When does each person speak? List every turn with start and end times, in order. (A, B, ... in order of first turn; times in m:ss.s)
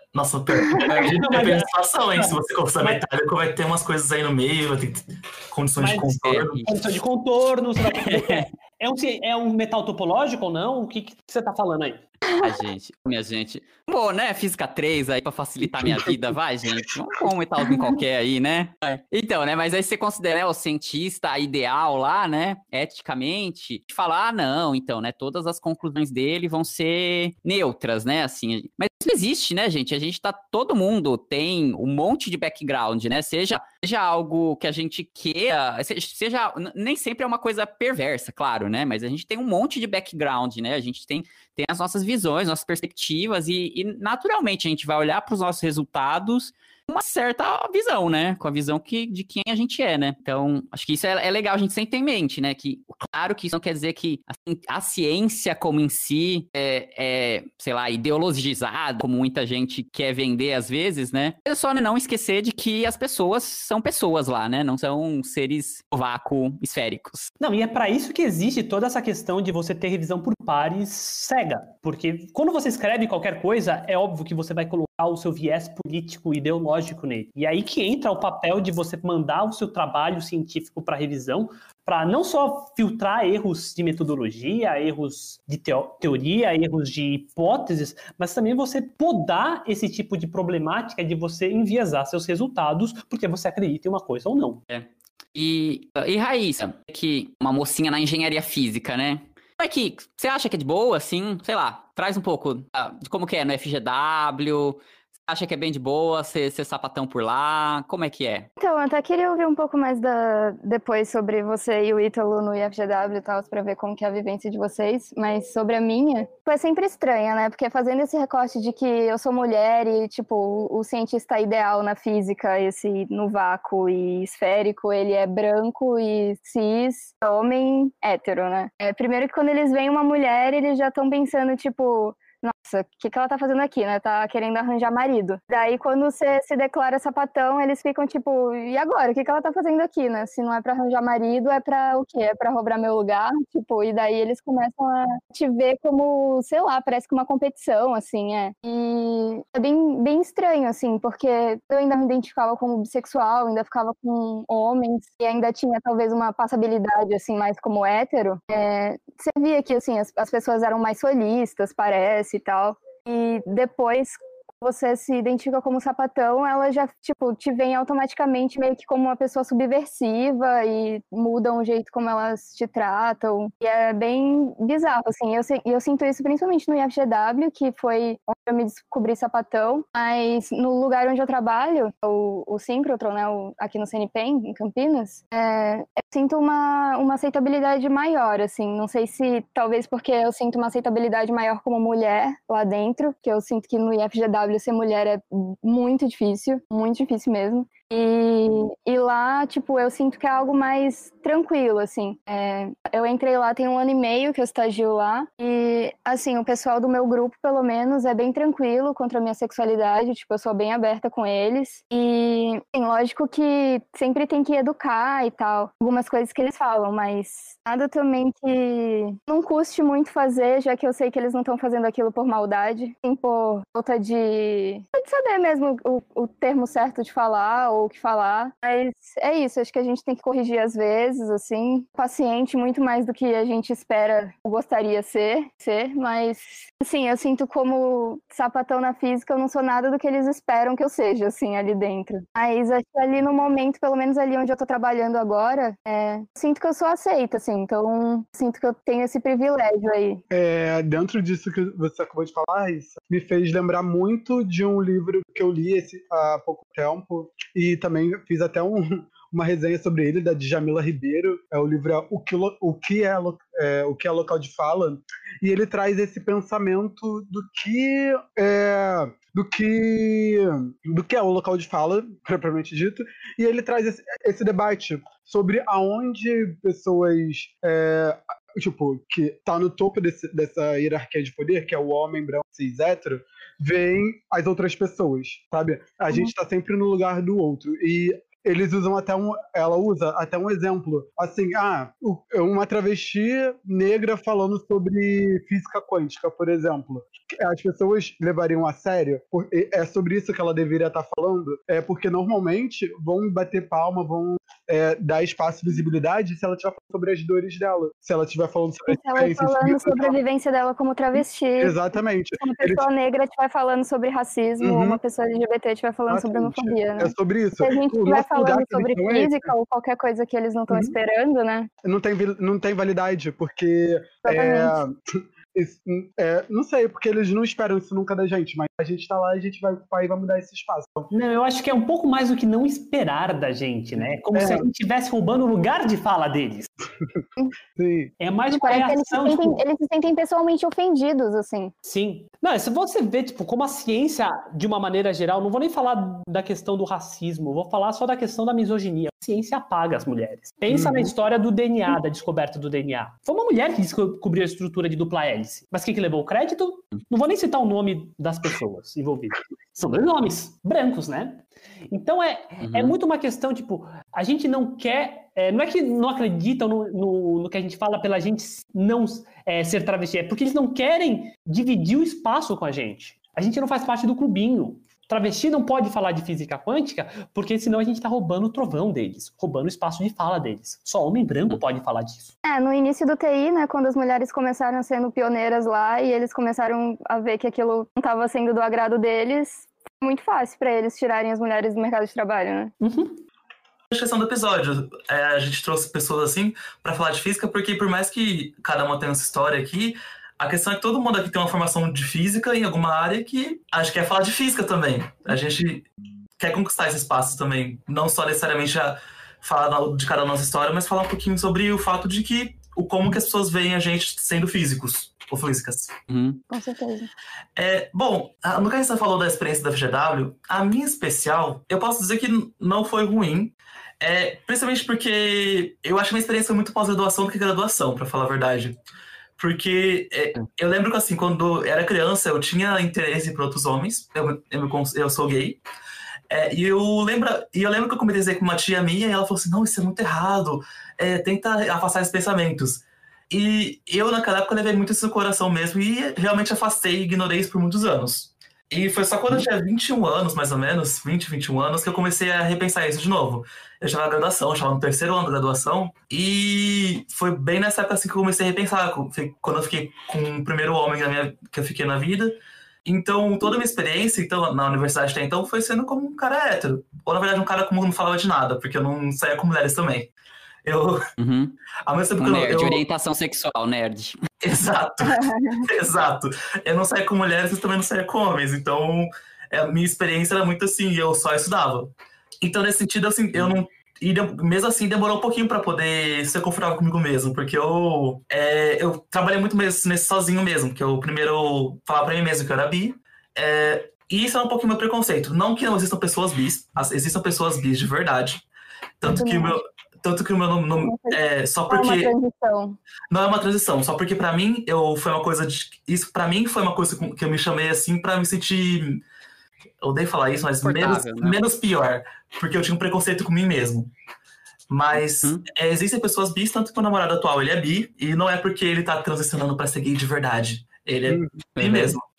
0:00.1-0:06.7 A
0:00.7-0:01.2 B
0:01.0-0:03.0 C
0:05.8-0:12.0 C
0:06.2-0:06.6 B
0:07.9-0:08.4 B
0:12.4-1:07.3 B
1:07.4-1:34.6 C
1:34.7-1:48.5 B
1:48.6-4:10.2 D
4:10.3-5:10.2 E
5:08.9-5:11.7 D
5:11.2-5:12.9 E
5:12.4-5:21.7 D
5:14.6-5:15.0 E
5:16.1-5:19.5 E
5:20.7-5:21.0 E
5:21.8-5:31.1 E
5:24.2-5:24.8 D
5:31.1-5:36.7 C
5:34.3-5:34.6 E
5:37.7-5:38.1 E
5:38.2-5:39.6 C
5:38.5-5:41.7 D
5:41.8-6:22.3 C
5:50.7-5:51.1 E
6:02.6-6:02.9 B
6:22.4-6:32.7 D
6:32.8-6:33.2 C
6:33.9-6:45.8 A
6:46.4-6:55.9 A
6:56.1-6:56.4 B
6:56.5-6:57.1 D
6:57.6-7:08.8 A
7:09.4-7:15.6 A
7:16.3-7:50.1 A
7:50.6-7:51.0 A
7:51.2-7:51.6 B
7:51.8-7:52.8 A
7:52.2-7:54.3 B
7:54.4-8:18.4 A
7:55.1-7:55.7 D
8:19.0-8:22.1 A
8:19.1-8:19.6 D
8:20.8-8:22.8 D
8:23.1-8:29.0 A
8:29.8-8:33.9 A
8:30.6-8:31.4 B
8:34.7-8:42.0 A
8:34.9-8:35.4 B
8:41.1-8:41.4 E
8:41.6-8:42.0 B